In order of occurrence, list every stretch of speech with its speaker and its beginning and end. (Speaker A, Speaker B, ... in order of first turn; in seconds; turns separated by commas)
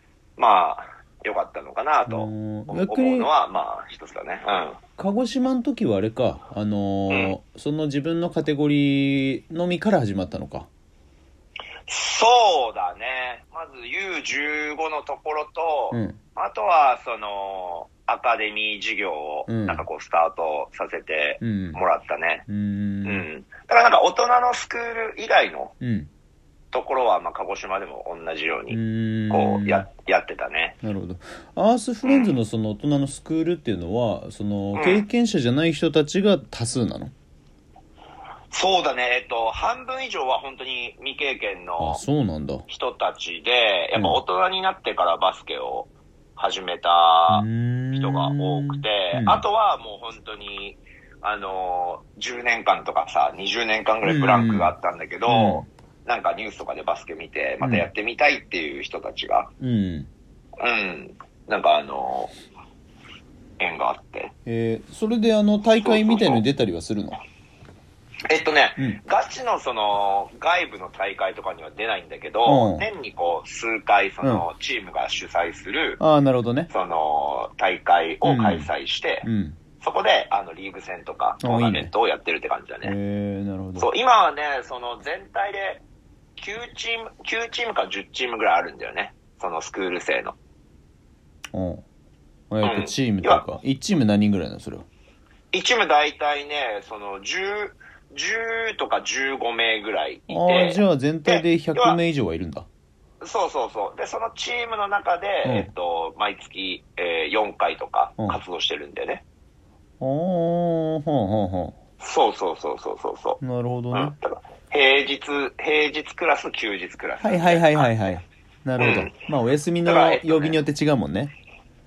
Speaker A: 0.4-4.8, Speaker B: 2.1-3.3, Speaker B: 5.0-10.7, Speaker A: 7.1-7.3, Speaker A: 11.9-22.4, Speaker B: 15.9-16.2, Speaker B: 19.5-19.8, Speaker B: 21.4-21.8, Speaker B: 22.5-23.2, Speaker A: 23.0-25.7, Speaker B: 25.8-26.1, Speaker A: 26.7-30.8, Speaker B: 28.7-29.9, Speaker B: 30.8-37.1, Speaker A: 32.0-32.4, Speaker A: 34.7-35.0, Speaker A: 38.5-42.0, Speaker B: 41.8-42.6, Speaker A: 42.7-59.5, Speaker B: 47.3-49.4, Speaker B: 54.0-54.7, Speaker B: 55.2-55.6, Speaker B: 57.6-57.9, Speaker B: 59.6-60.1, Speaker A: 60.6-62.3, Speaker A: 63.6-64.3, Speaker B: 64.5-67.2, Speaker A: 65.8-66.4, Speaker A: 68.3-76.0, Speaker B: 72.5-72.9, Speaker B: 76.0-76.7, Speaker A: 76.7-79.2, Speaker B: 78.2-78.7, Speaker B: 79.2-79.6, Speaker A: 79.8-82.9, Speaker B: 81.4-81.9, Speaker B: 82.8-83.9, Speaker A: 83.8-85.8, Speaker A: 86.4-90.3, Speaker B: 91.5-91.8, Speaker B: 92.5-94.8, Speaker A: 92.6-93.4, Speaker A: 95.5-102.0, Speaker B: 100.3-102.7, Speaker A: 103.2-109.2, Speaker B: 105.4-105.7, Speaker B: 110.0-111.7, Speaker A: 112.0-113.4, Speaker B: 113.4-114.1, Speaker A: 113.9-118.1, Speaker B: 117.2-121.3, Speaker A: 118.8-119.2, Speaker A: 119.8-120.6